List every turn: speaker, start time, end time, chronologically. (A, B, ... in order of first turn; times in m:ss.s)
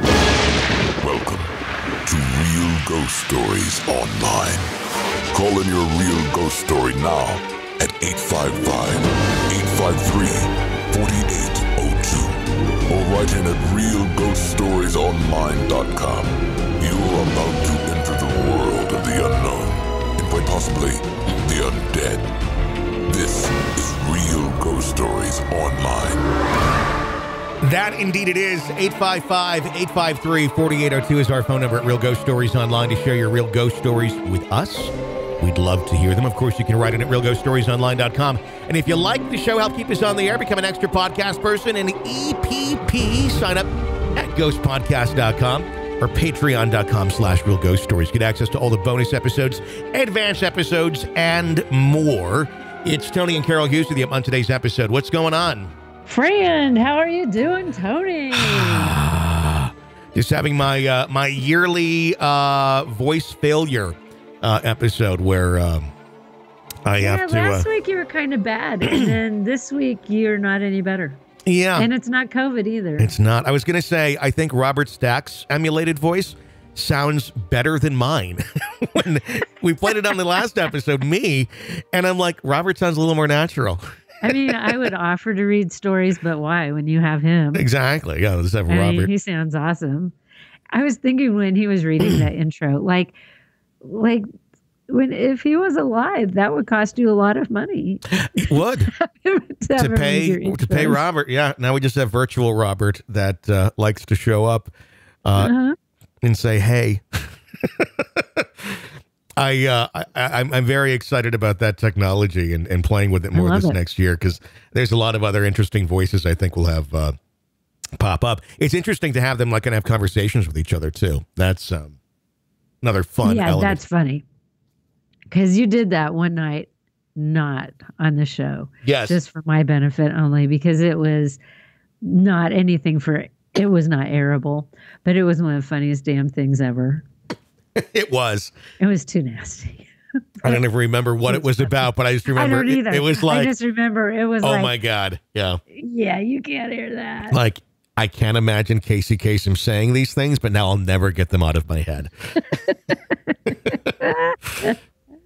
0:01.0-0:01.5 A
0:02.0-0:04.7 A
0:05.3-0:22.3 A
0:23.1-0:26.2 A
0:27.6-0:55.7 B
0:56.1-0:58.9 C
0:58.4-1:05.9 B
1:06.8-1:07.7 B
1:07.0-1:11.2 C
1:11.4-1:11.9 B
1:11.8-1:13.1 C
1:13.0-1:24.6 B
1:24.2-1:27.6 C
1:27.6-1:29.1 B
1:28.7-1:30.1 C
1:30.7-1:33.1 C
1:33.8-1:34.2 C
1:34.9-1:41.0 C
1:38.2-1:38.9 B
1:39.8-1:44.7 B
1:45.2-1:45.5 B
1:45.4-1:45.8 C
1:46.2-1:48.8 B
1:49.4-1:57.1 B
1:53.3-1:53.8 C
1:58.0-2:02.0 B
2:02.8-2:03.8 B
2:03.2-2:04.2 C
2:05.3-2:11.4 C
2:08.8-2:09.2 B
2:12.0-2:17.0 C
2:17.8-2:18.5 B
2:18.8-2:19.9 C
2:20.4-2:23.5 B
2:21.3-2:21.8 C
2:22.3-2:24.7 C
2:24.4-2:25.6 B
2:25.8-2:27.4 C
2:27.3-2:32.1 B
2:33.3-2:34.8 C